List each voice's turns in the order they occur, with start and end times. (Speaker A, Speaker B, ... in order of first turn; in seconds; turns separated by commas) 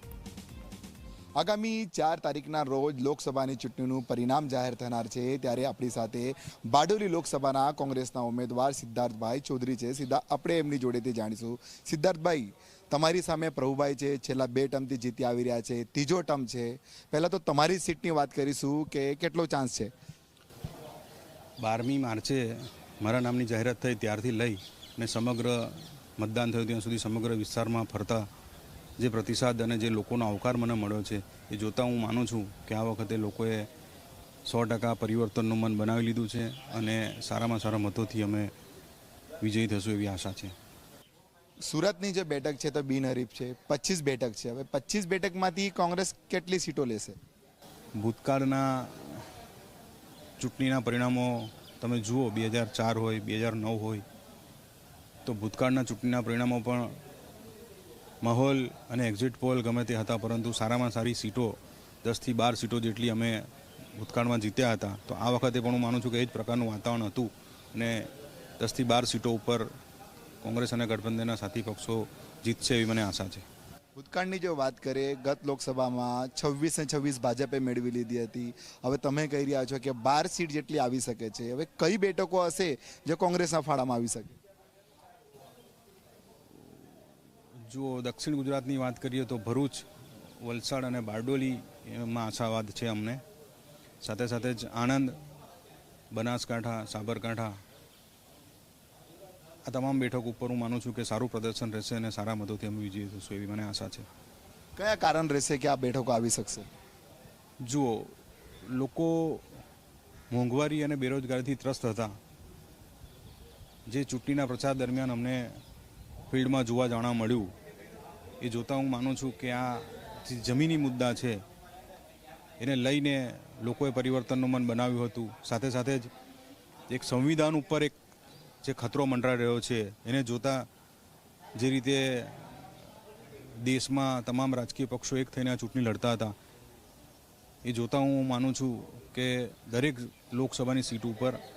Speaker A: 1.4-19.9, Speaker B: 21.6-28.3, Speaker B: 29.0-33.7, Speaker B: 34.4-38.5, Speaker B: 39.4-40.5, Speaker A: 41.6-47.1, Speaker B: 48.0-49.2, Speaker B: 50.4-54.0, Speaker B: 55.2-56.9, Speaker B: 58.2-69.7, Speaker B: 70.4-73.4, Speaker A: 74.0-84.3, Speaker B: 87.6-89.9, Speaker B: 90.4-93.2, Speaker B: 94.0-95.2, Speaker B: 96.1-97.6, Speaker B: 99.6-104.1, Speaker A: 104.8-106.7, Speaker B: 107.6-109.4, Speaker B: 110.3-112.2, Speaker B: 113.9-115.6, Speaker B: 116.3-117.5, Speaker B: 118.4-121.4, Speaker B: 122.6-126.1, Speaker B: 126.9-127.9, Speaker B: 128.6-130.7, Speaker B: 131.6-132.7, Speaker B: 133.6-136.3, Speaker B: 137.6-141.4